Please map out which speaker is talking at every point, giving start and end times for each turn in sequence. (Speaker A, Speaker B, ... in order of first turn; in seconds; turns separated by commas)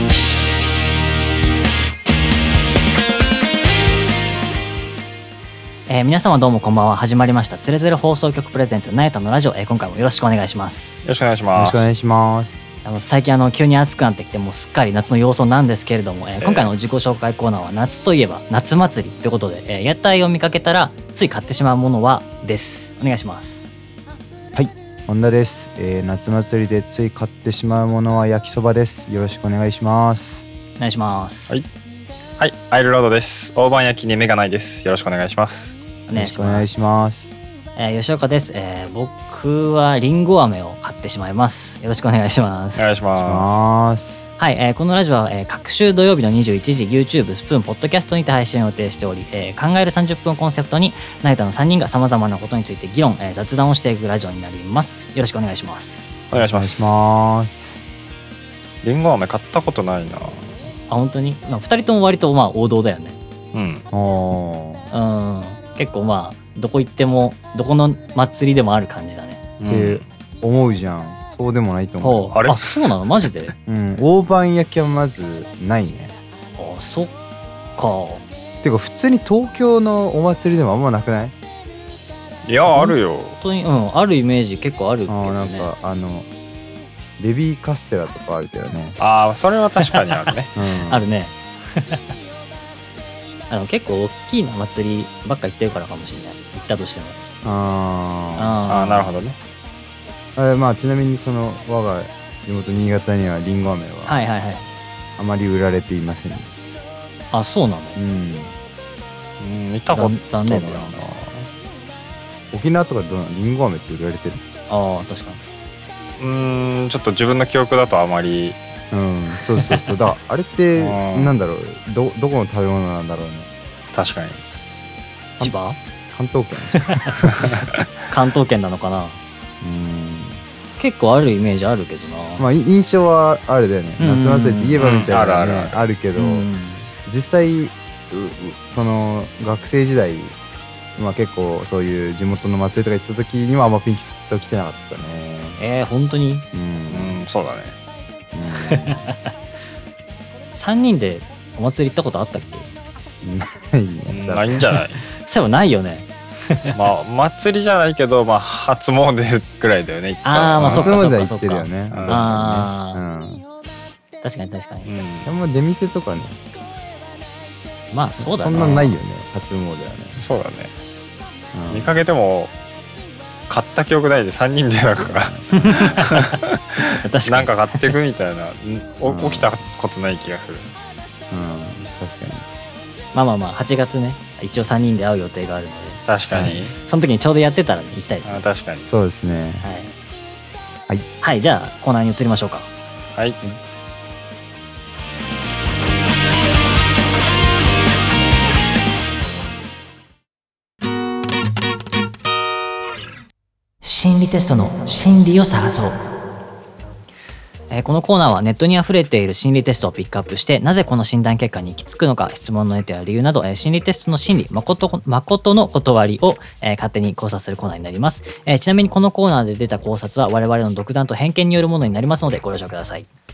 Speaker A: 5.9-11.1, Speaker B: 11.0-11.8, Speaker C: 11.5-12.6, Speaker A: 12.8-23.7, Speaker B: 16.4-16.7, Speaker C: 24.5-30.4, Speaker A: 30.8-31.7, Speaker B: 32.4-35.8, Speaker A: 36.1-36.7, Speaker C: 36.1-37.3, Speaker A: 37.8-42.9, Speaker B: 42.7-43.5, Speaker C: 43.1-44.3, Speaker A: 44.4-56.3, Speaker B: 56.3-56.9, Speaker C: 56.4-57.8, Speaker B: 58.8-60.6, Speaker A: 60.9-63.2, Speaker B: 63.5-63.9, Speaker C: 63.9-64.9, Speaker A: 64.9-69.4, Speaker B: 69.6-70.1, Speaker C: 69.6-72.3, Speaker A: 72.0-73.5, Speaker B: 72.3-72.8, Speaker C: 73.7-76.1, Speaker A: 76.6-77.1, Speaker A: 77.8-78.2, Speaker C: 78.6-81.3, Speaker B: 82.4-83.4, Speaker A: 82.7-85.7, Speaker C: 85.1-86.3, Speaker C: 87.2-89.0, Speaker B: 89.0-90.5, Speaker A: 89.8-90.1, Speaker C: 90.5-91.0, Speaker A: 90.8-92.0, Speaker A: 93.5-97.2, Speaker C: 97.4-98.6, Speaker A: 98.3-99.1, Speaker B: 98.7-99.4, Speaker C: 100.3-104.1, Speaker A: 104.0-104.7, Speaker C: 105.2-106.5, Speaker A: 107.3-108.0, Speaker C: 108.0-108.5, Speaker B: 109.4-111.5, Speaker A: 109.9-110.9, Speaker C: 112.5-114.4, Speaker A: 114.7-115.4, Speaker B: 116.2-118.6, Speaker C: 118.9-123.5, Speaker B: 120.7-121.3, Speaker B: 123.9-124.4, Speaker A: 125.4-125.8, Speaker C: 126.1-127.5, Speaker A: 126.7-127.3, Speaker B: 127.4-127.7, Speaker A: 128.1-129.2, Speaker C: 129.6-130.4, Speaker A: 130.8-132.4, Speaker C: 132.4-136.5, Speaker A: 134.0-134.8, Speaker B: 134.8-135.8, Speaker A: 136.1-136.9, Speaker C: 137.1-140.3, Speaker C: 141.0-145.6, Speaker A: 145.6-146.4, Speaker C: 146.5-147.2, Speaker B: 146.9-147.8, Speaker C: 148.3-149.1, Speaker A: 148.6-149.3, Speaker A: 150.5-152.7, Speaker C: 153.2-154.6, Speaker B: 154.1-155.0, Speaker A: 155.1-156.7, Speaker B: 156.7-160.9, Speaker A: 160.2-163.0, Speaker C: 160.6-163.4, Speaker B: 161.9-162.2, Speaker A: 164.2-164.9, Speaker B: 164.8-165.3, Speaker C: 165.2-166.4, Speaker A: 167.9-169.0, Speaker C: 168.2-170.2, Speaker B: 170.2-170.7, Speaker C: 171.5-171.9, Speaker B: 171.7-172.5, Speaker B: 173.5-180.7, Speaker C: 175.0-176.0, Speaker A: 175.5-177.9, Speaker C: 179.0-179.5, Speaker C: 181.3-182.4, Speaker A: 183.1-188.4, Speaker B: 186.1-186.7, Speaker B: 188.2-188.9, Speaker C: 188.8-189.6, Speaker A: 189.6-189.9, Speaker A: 191.2-192.7, Speaker A: 203.8-206.0, Speaker A: 207.7-223.1